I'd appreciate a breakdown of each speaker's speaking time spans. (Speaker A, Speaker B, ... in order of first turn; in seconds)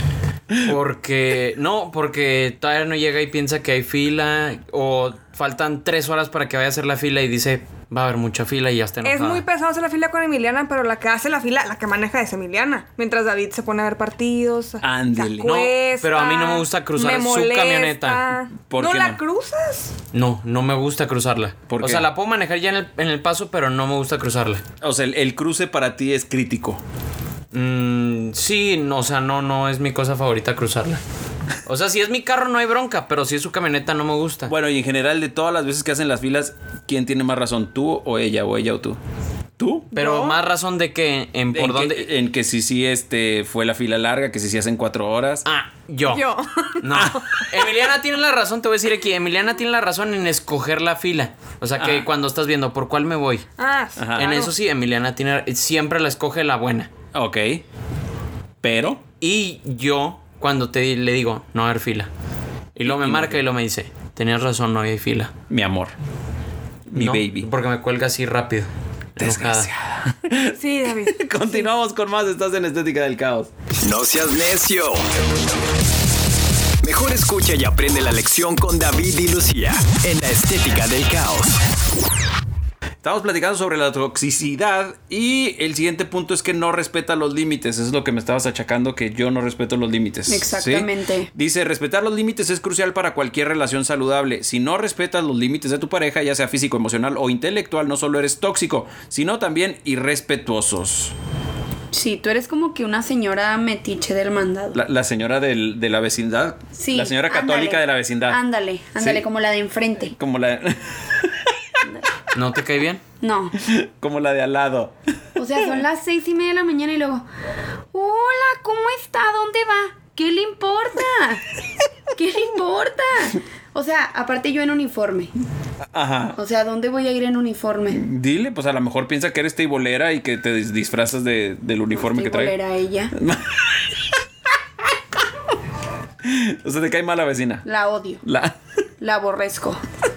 Speaker A: 0.5-0.7, 14.8-15.6, 18.7-19.2, 21.7-22.1, 24.8-26.8, 34.5-39.0, 39.6-39.9, 41.5-45.5, 46.9-47.2, 51.8-52.1, 54.0-54.4, 57.1-57.6, 58.6-59.0, 62.9-63.4, 65.5-65.9, 66.9-67.5, 69.2-73.5, 83.0-101.1, 104.7-108.4, 109.0-109.2, 110.1-111.5, 113.6-114.9, 125.9-126.4, 127.9-132.5, 133.1-133.9, 136.2-137.6, 138.2-138.5
Speaker B: 0.6-9.4, 15.4-18.2, 20.1-24.6, 27.5-31.0, 31.6-34.5, 39.9-42.1, 45.5-46.2, 46.8-53.5, 54.1-56.9, 59.2-62.1, 62.8-65.3, 66.9-69.7, 112.3-113.0
Speaker C: 9.0-19.9, 39.9-40.4, 46.1-47.4, 53.6-54.5, 70.5-71.6
Speaker D: 73.8-75.0, 76.8-81.6
Speaker E: 90.3-91.3, 101.9-104.8, 106.8-110.1, 113.2-113.5, 115.3-117.2, 117.9-121.4, 122.1-125.3, 126.3-128.0, 131.9-133.1, 137.6-138.2, 139.0-139.8